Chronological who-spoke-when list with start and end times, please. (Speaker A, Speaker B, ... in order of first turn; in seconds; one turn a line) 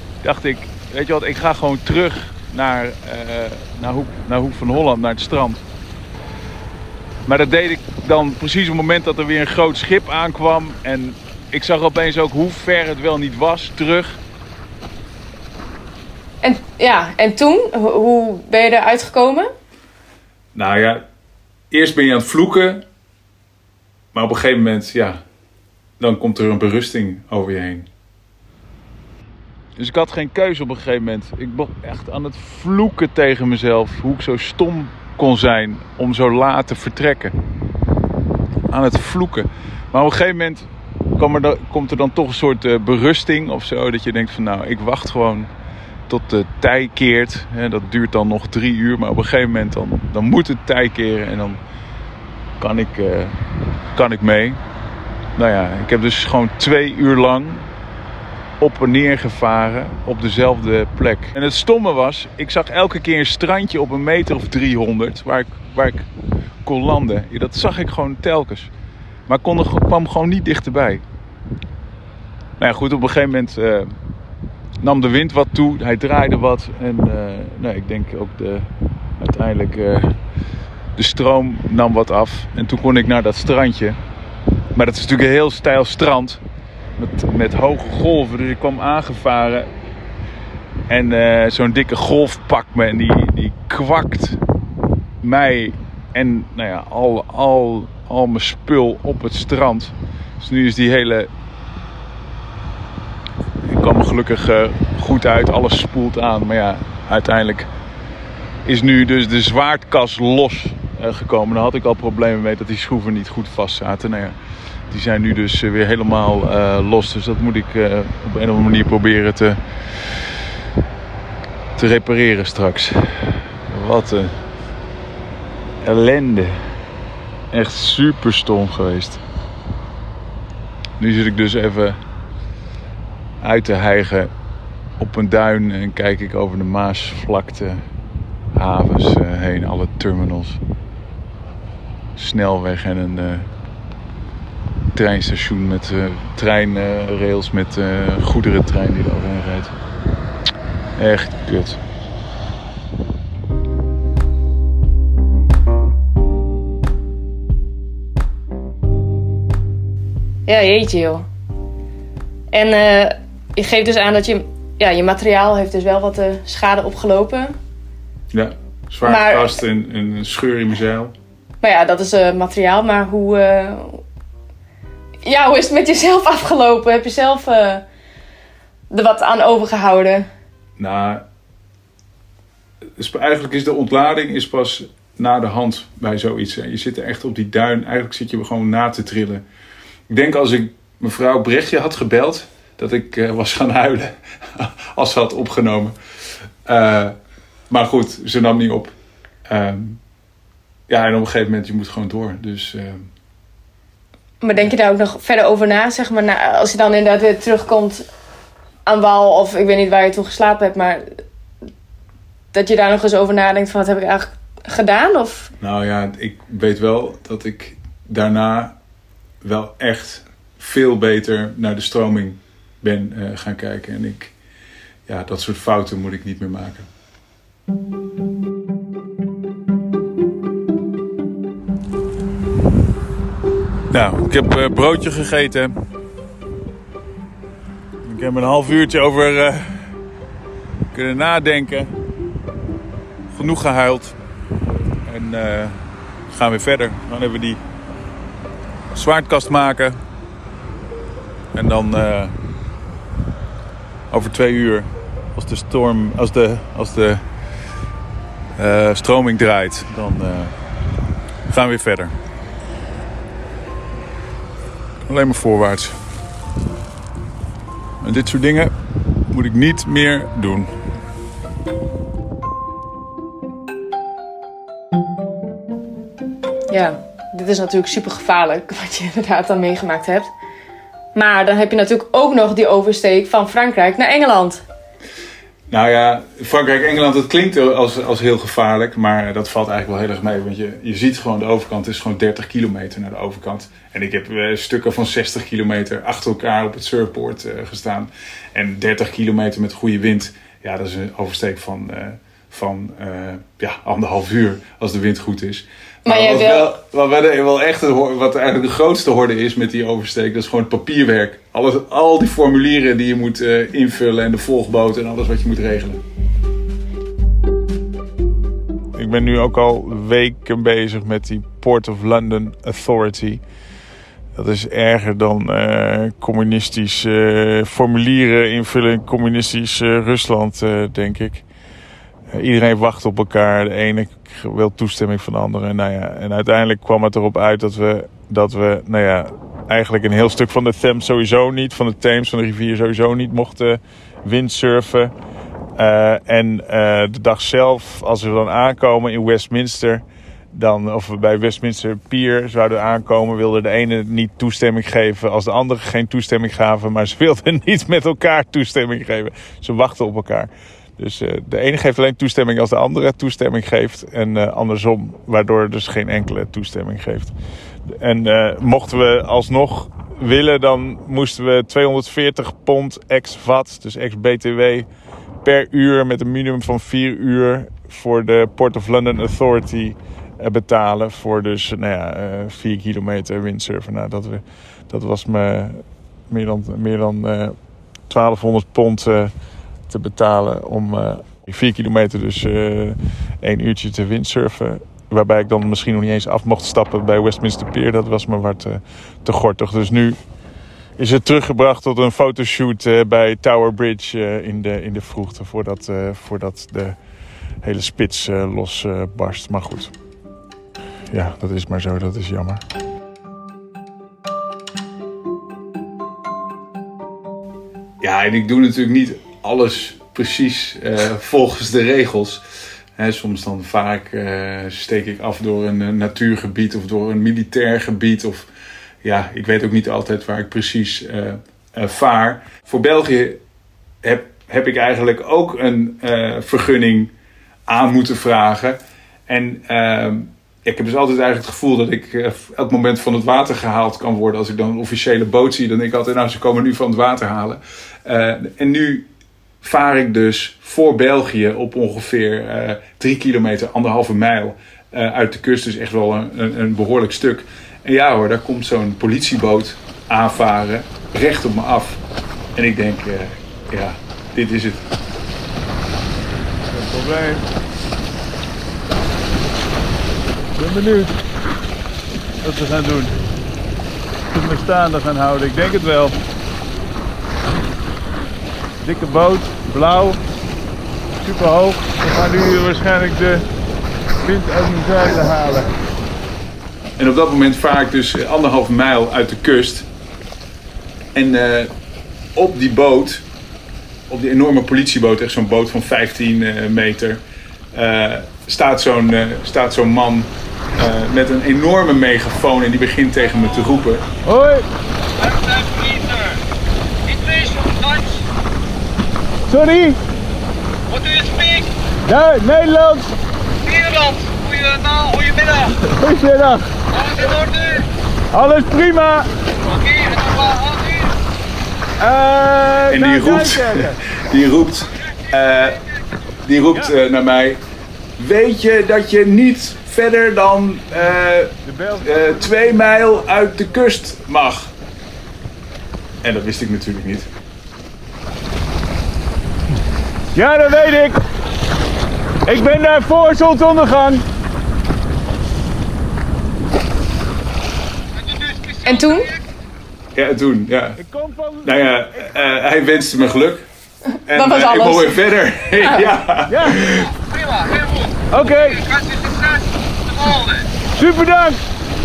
Speaker A: 0.2-5.7
Speaker A: 7.3-14.2
Speaker B: 16.4-19.5
Speaker A: 20.6-21.0
Speaker A: 21.7-22.9
Speaker A: 24.1-25.2
Speaker A: 26.0-27.9
Speaker A: 29.8-37.4
Speaker A: 38.7-45.5
Speaker A: 46.1-51.6
Speaker A: 52.6-53.4
Speaker A: 53.9-54.6
Speaker A: 55.4-57.7
Speaker A: 58.6-66.1
Speaker A: 66.6-68.7
Speaker A: 69.3-71.0
Speaker A: 72.6-74.0
Speaker A: 74.8-80.2
Speaker A: 81.0-84.0
Speaker A: 84.7-86.4
Speaker A: 87.0-89.7
Speaker A: 90.9-94.4
Speaker A: 95.2-101.3
Speaker A: 103.7-107.7
Speaker A: 108.7-114.4
Speaker A: 114.9-119.6
Speaker A: 121.8-124.4
Speaker A: 125.8-126.6
Speaker A: 127.5-129.2
Speaker A: 131.0-132.0
Speaker A: 133.4-134.3
Speaker A: 135.0-137.8
Speaker A: 138.5-140.6
Speaker A: 142.2-143.5
Speaker A: 144.9-149.7
Speaker A: 151.0-151.8
Speaker B: 160.5-161.3
Speaker B: 162.5-167.6
Speaker A: 168.3-171.1
Speaker B: 169.0-169.5
Speaker B: 171.6-174.0
Speaker B: 175.2-177.8
Speaker B: 178.9-180.3
Speaker A: 180.8-181.2
Speaker A: 183.0-189.4
Speaker A: 190.1-195.9
Speaker A: 196.7-197.2
Speaker A: 197.7-198.9
Speaker A: 199.5-200.0
Speaker A: 200.9-203.1
Speaker B: 204.4-208.1
Speaker B: 208.9-211.2
Speaker B: 212.5-215.5
Speaker A: 215.6-218.8
Speaker A: 219.4-224.3
Speaker A: 225.1-226.9
Speaker A: 233.9-235.7
Speaker A: 238.0-239.9
Speaker A: 240.9-241.9
Speaker A: 243.3-244.2
Speaker A: 245.1-245.8
Speaker A: 246.3-247.6
Speaker A: 248.9-250.0
Speaker A: 251.5-252.3
Speaker A: 254.1-257.2
Speaker A: 258.6-260.6
Speaker A: 261.5-262.1
Speaker A: 265.1-266.0
Speaker A: 268.0-268.7
Speaker A: 269.3-270.8
Speaker B: 276.7-280.3
Speaker B: 281.1-284.6
Speaker A: 285.7-316.0
Speaker B: 306.1-306.7
Speaker A: 318.9-323.4
Speaker A: 324.4-331.5
Speaker A: 332.3-345.1
Speaker A: 345.8-367.3
Speaker A: 367.9-374.9
Speaker A: 375.4-387.6
Speaker A: 388.1-389.3
Speaker A: 389.9-400.2
Speaker A: 401.0-407.0
Speaker A: 407.6-409.9
Speaker A: 411.1-412.6
Speaker A: 418.0-422.4
Speaker A: 423.0-428.5
Speaker A: 429.0-433.4
Speaker A: 434.0-437.1
Speaker A: 437.7-449.1
Speaker A: 449.6-462.0
Speaker A: 462.6-464.8
Speaker C: 466.7-467.4
Speaker C: 470.6-471.1
Speaker C: 472.4-473.1
Speaker C: 474.3-476.2
Speaker C: 478.8-480.2
Speaker C: 481.2-483.4
Speaker C: 484.2-485.7
Speaker A: 487.0-489.9
Speaker A: 491.1-491.7
Speaker A: 492.4-493.3
Speaker A: 494.1-504.1
Speaker C: 504.2-504.7
Speaker D: 505.2-506.4
Speaker D: 507.1-508.1
Speaker C: 509.5-510.0
Speaker D: 510.9-511.6
Speaker C: 512.0-513.2
Speaker D: 513.7-515.5
Speaker C: 515.5-517.2
Speaker D: 517.2-517.8
Speaker C: 518.3-519.3
Speaker D: 519.7-521.1
Speaker C: 522.0-524.0
Speaker A: 522.9-525.9
Speaker A: 526.4-527.6
Speaker A: 528.2-534.7
Speaker C: 531.6-533.1
Speaker A: 536.2-537.3
Speaker C: 540.4-541.2
Speaker C: 542.5-544.2
Speaker B: 548.8-549.4
Speaker A: 550.1-551.0
Speaker C: 551.0-552.4
Speaker A: 551.6-553.7
Speaker B: 554.3-555.2
Speaker A: 554.3-557.1
Speaker B: 555.8-556.1
Speaker C: 556.5-556.9
Speaker D: 557.5-558.1
Speaker C: 558.3-559.0
Speaker D: 559.1-559.6
Speaker C: 560.9-561.6